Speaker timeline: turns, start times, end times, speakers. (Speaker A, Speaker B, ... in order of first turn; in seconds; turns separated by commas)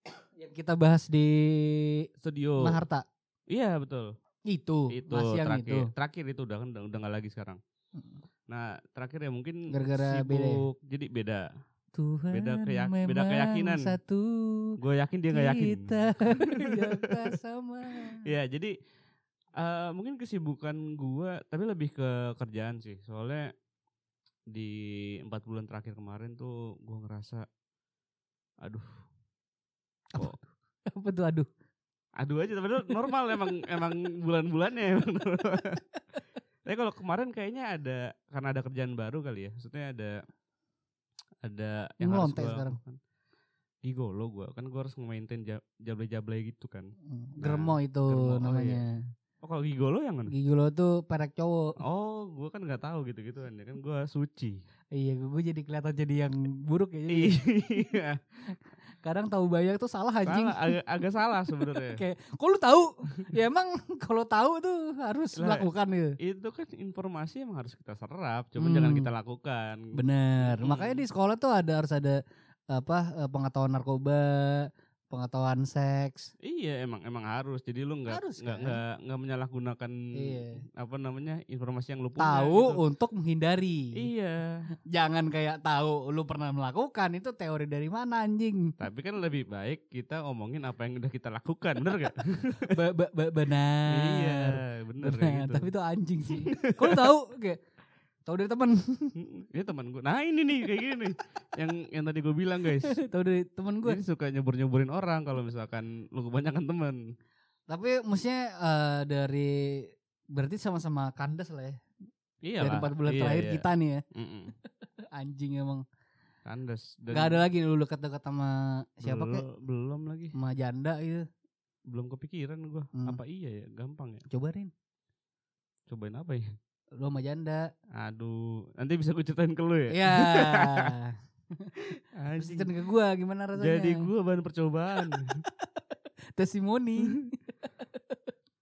Speaker A: 0.4-2.1, Speaker B: 2.2-2.8, Speaker A: 2.6-3.0, Speaker B: 3.5-4.1, Speaker A: 4.5-5.9, Speaker B: 4.9-7.6, Speaker B: 8.5-11.5, Speaker A: 9.7-10.6, Speaker A: 11.9-14.8, Speaker B: 12.3-13.9, Speaker B: 14.8-17.3, Speaker A: 15.3-18.2, Speaker B: 18.2-18.7, Speaker B: 19.6-23.5, Speaker B: 24.5-27.4, Speaker B: 28.6-28.9, Speaker A: 30.1-31.5, Speaker B: 32.2-35.8, Speaker B: 36.7-40.1, Speaker B: 41.4-43.0, Speaker A: 42.0-42.8, Speaker B: 43.8-48.8, Speaker A: 47.0-48.9, Speaker B: 49.4-50.3, Speaker A: 50.3-51.7, Speaker B: 51.8-54.6, Speaker A: 54.9-57.4, Speaker B: 57.1-58.2, Speaker A: 58.5-60.7, Speaker B: 60.2-62.0, Speaker A: 61.8-66.1, Speaker B: 65.3-65.7, Speaker B: 66.2-69.9, Speaker A: 68.6-69.1, Speaker A: 69.9-72.2, Speaker B: 70.4-71.0, Speaker A: 72.7-76.3, Speaker B: 76.4-82.8, Speaker A: 78.1-78.8, Speaker A: 80.2-80.6, Speaker A: 82.2-84.0, Speaker B: 84.0-84.6, Speaker A: 84.9-88.7, Speaker B: 88.8-92.7, Speaker A: 92.7-97.6, Speaker B: 93.9-95.7, Speaker B: 96.5-97.0, Speaker A: 98.2-99.1, Speaker B: 99.2-102.9, Speaker A: 102.8-104.0, Speaker B: 103.8-107.0, Speaker A: 107.7-111.8, Speaker B: 112.4-114.5, Speaker A: 112.6-114.0, Speaker A: 115.1-115.8, Speaker B: 116.5-117.4, Speaker A: 117.1-119.4, Speaker B: 119.0-120.3, Speaker A: 120.3-121.2, Speaker B: 121.9-124.2, Speaker A: 124.3-124.7, Speaker B: 125.9-126.5, Speaker A: 127.0-127.7, Speaker B: 128.0-130.9, Speaker A: 129.9-131.7, Speaker B: 132.2-132.7, Speaker A: 132.4-134.1, Speaker B: 133.6-135.4, Speaker A: 135.2-135.8, Speaker A: 136.4-138.2